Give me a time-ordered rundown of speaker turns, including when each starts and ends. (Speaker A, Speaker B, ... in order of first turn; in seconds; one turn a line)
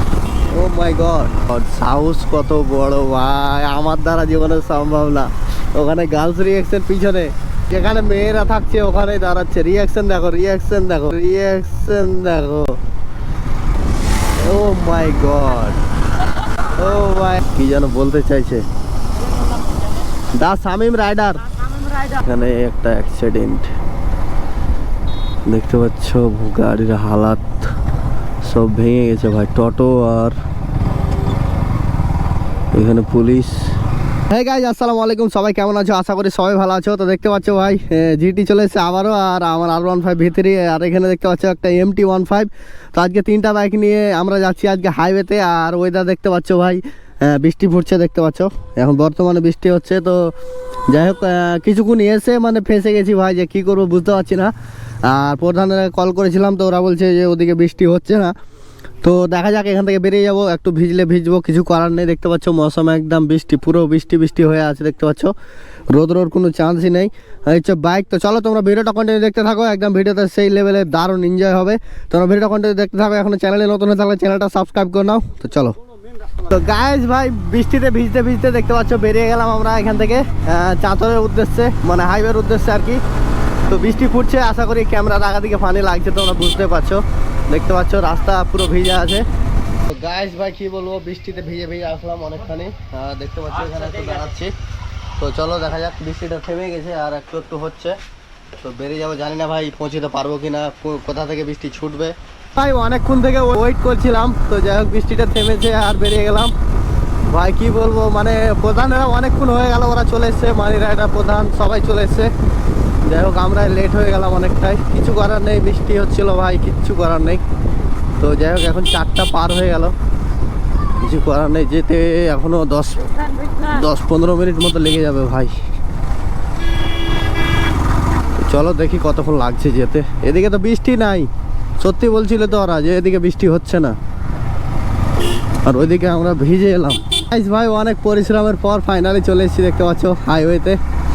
Speaker A: 0.5-12.8
Speaker A: 14.4-15.8
Speaker A: 16.8-18.6
Speaker A: 20.3-23.7
Speaker A: 25.5-27.7
Speaker A: 28.4-30.4
Speaker A: 32.7-33.6
Speaker A: 34.3-50.3
Speaker A: 50.9-54.5
Speaker A: 55.0-58.3
Speaker A: 59.0-65.3
Speaker A: 65.9-75.8
Speaker A: 76.4-83.0
Speaker A: 83.7-89.2
Speaker A: 89.9-94.5
Speaker A: 95.2-98.0
Speaker A: 98.5-106.5
Speaker A: 107.3-112.3
Speaker A: 113.0-117.4
Speaker A: 118.2-119.9
Speaker A: 121.0-125.5
Speaker A: 128.4-131.3
Speaker A: 131.8-133.9
Speaker A: 135.6-140.8